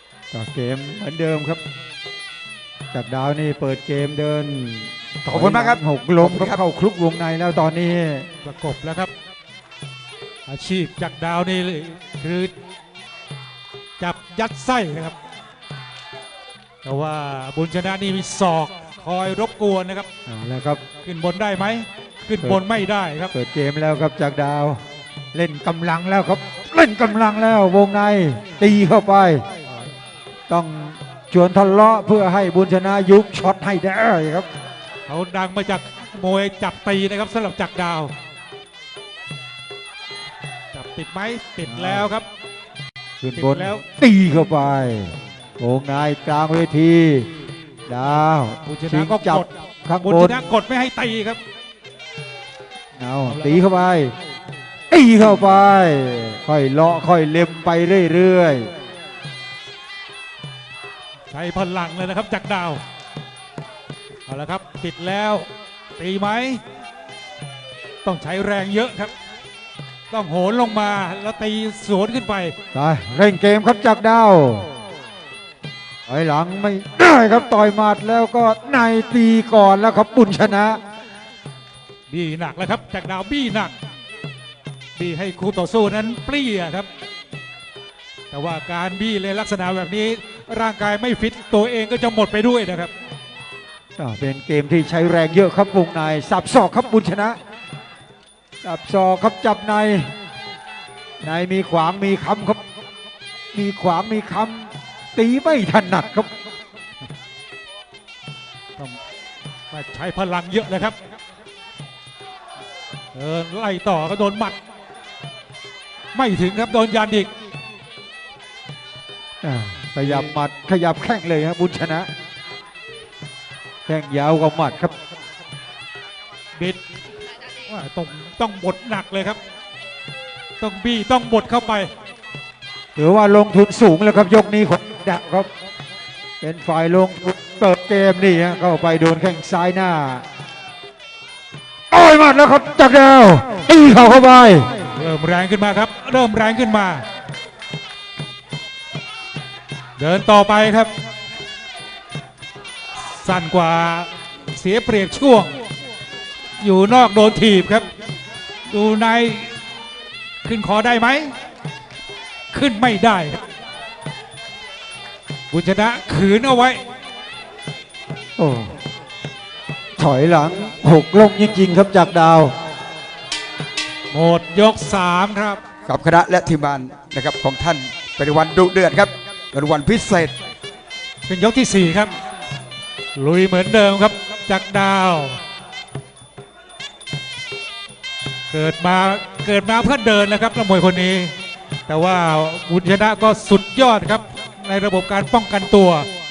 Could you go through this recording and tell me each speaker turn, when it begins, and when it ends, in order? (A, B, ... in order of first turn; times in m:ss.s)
0:00.3-0:01.6 A
0:02.9-0:08.3 A
0:05.3-0:06.6 B
0:08.4-0:09.1 C
0:10.5-0:12.5 C
0:14.0-0:15.2 C
0:16.8-0:20.1 C
0:20.3-0:20.8 A
0:21.0-0:23.3 C
0:23.3-0:24.8 A
0:25.3-0:29.4 A
0:30.5-0:34.5 A
0:35.1-0:38.1 C
0:40.7-0:42.3 C
0:41.6-0:42.1 A
0:43.2-0:47.3 A
0:43.4-0:43.8 C
0:47.9-0:50.4 A
0:48.7-0:49.5 C
0:50.0-0:51.4 C
0:53.0-0:54.1 A
0:53.2-0:53.6 C
0:54.9-0:58.7 A
1:01.3-1:02.8 C
1:04.3-1:06.6 C
1:08.0-1:09.1 C
1:10.1-1:12.6 C
1:12.7-1:14.7 A
1:16.1-1:20.8 A
1:22.1-1:23.7 C
1:25.0-1:26.9 C
1:28.3-1:32.9 C
1:34.0-1:37.4 A
1:38.6-1:40.1 A
1:41.2-1:42.6 A
1:43.5-1:46.3 A
1:49.7-1:51.0 C
1:53.1-1:54.6 C
1:56.1-1:57.3 C
1:59.4-2:02.1 A
2:00.0-2:00.4 C
2:03.9-2:04.9 A
2:07.7-2:09.4 C
2:10.6-2:11.9 C
2:13.0-2:15.5 A
2:16.4-2:20.2 A
2:21.9-2:24.7 A
2:24.9-2:27.0 C
2:30.0-2:30.9 C
2:33.0-2:35.6 C
2:36.6-2:37.9 C
2:38.7-2:39.5 C
2:40.4-2:41.3 C
2:42.5-2:43.4 C
2:45.5-2:46.8 C
2:48.4-2:48.7 A
2:50.0-2:52.5 A
2:54.1-2:55.6 C
2:55.8-3:00.3 B
3:01.3-3:02.1 C
3:03.2-3:05.4 C
3:08.5-3:11.3 C
3:11.9-3:16.1 C